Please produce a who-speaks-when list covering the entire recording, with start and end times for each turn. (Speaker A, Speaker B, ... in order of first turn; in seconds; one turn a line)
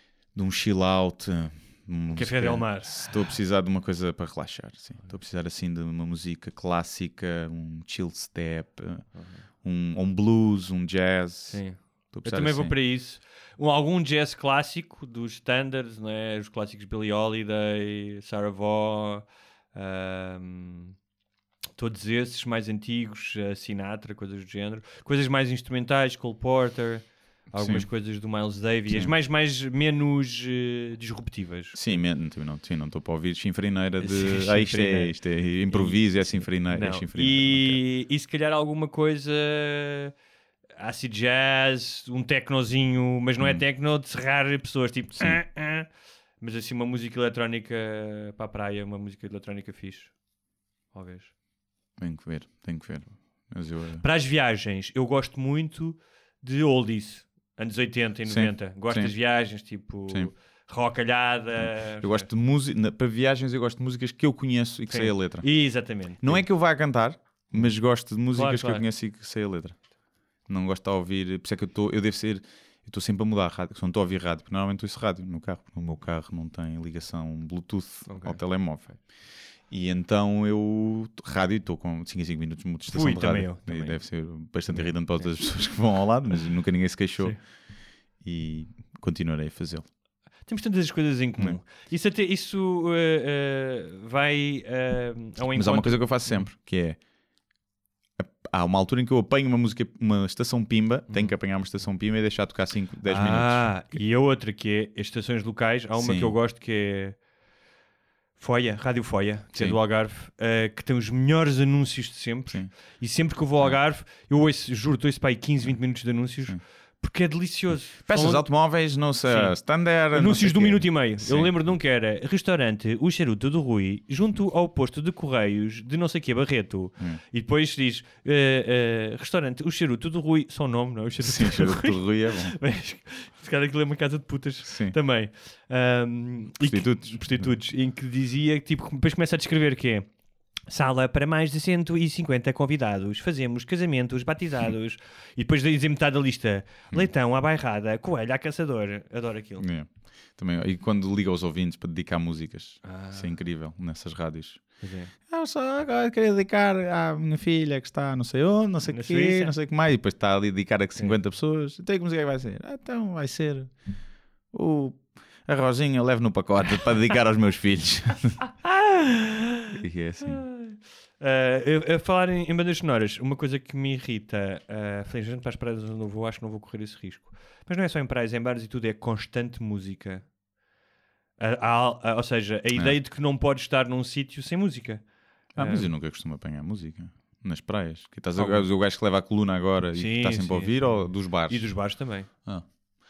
Speaker A: 0.3-9.1
Speaker B: 2.1-3.3
Speaker B: 9.2-9.4
Speaker A: 9.6-12.8
Speaker B: 11.5-20.9
Speaker B: 21.8-32.0
Speaker A: 27.6-27.9
Speaker A: 31.7-37.8
Speaker B: 34.0-35.2
Speaker B: 35.7-40.1
Speaker B: 40.8-45.9
Speaker B: 46.4-50.1
Speaker B: 50.9-51.3
Speaker A: 52.0-54.0
Speaker B: 54.0-62.3
Speaker A: 58.3-59.1
Speaker A: 61.6-65.5
Speaker B: 64.9-66.5
Speaker A: 66.2-69.8
Speaker B: 68.3-68.9
Speaker A: 70.5-79.0
Speaker B: 78.1-78.9
Speaker A: 79.7-87.4
Speaker B: 82.9-84.0
Speaker B: 84.7-85.3
Speaker A: 88.2-89.9
Speaker B: 90.5-96.5
Speaker A: 95.5-97.0
Speaker A: 98.2-103.8
Speaker B: 103.1-107.2
Speaker A: 106.0-106.3
Speaker B: 108.4-118.5
Speaker A: 118.1-121.5
Speaker B: 119.3-119.6
Speaker B: 120.1-140.1
Speaker A: 131.2-132.6
Speaker A: 134.7-134.9
Speaker A: 136.6-137.5
Speaker B: 140.7-149.7
Speaker A: 149.6-154.7
Speaker B: 152.8-153.3
Speaker B: 154.8-155.1
Speaker A: 155.3-163.7
Speaker B: 158.9-159.5
Speaker A: 164.5-168.4
Speaker B: 168.6-169.7
Speaker A: 169.7-170.4
Speaker B: 170.2-180.3
Speaker B: 181.4-185.9
Speaker A: 185.6-191.7
Speaker B: 188.4-188.7
Speaker B: 190.0-192.3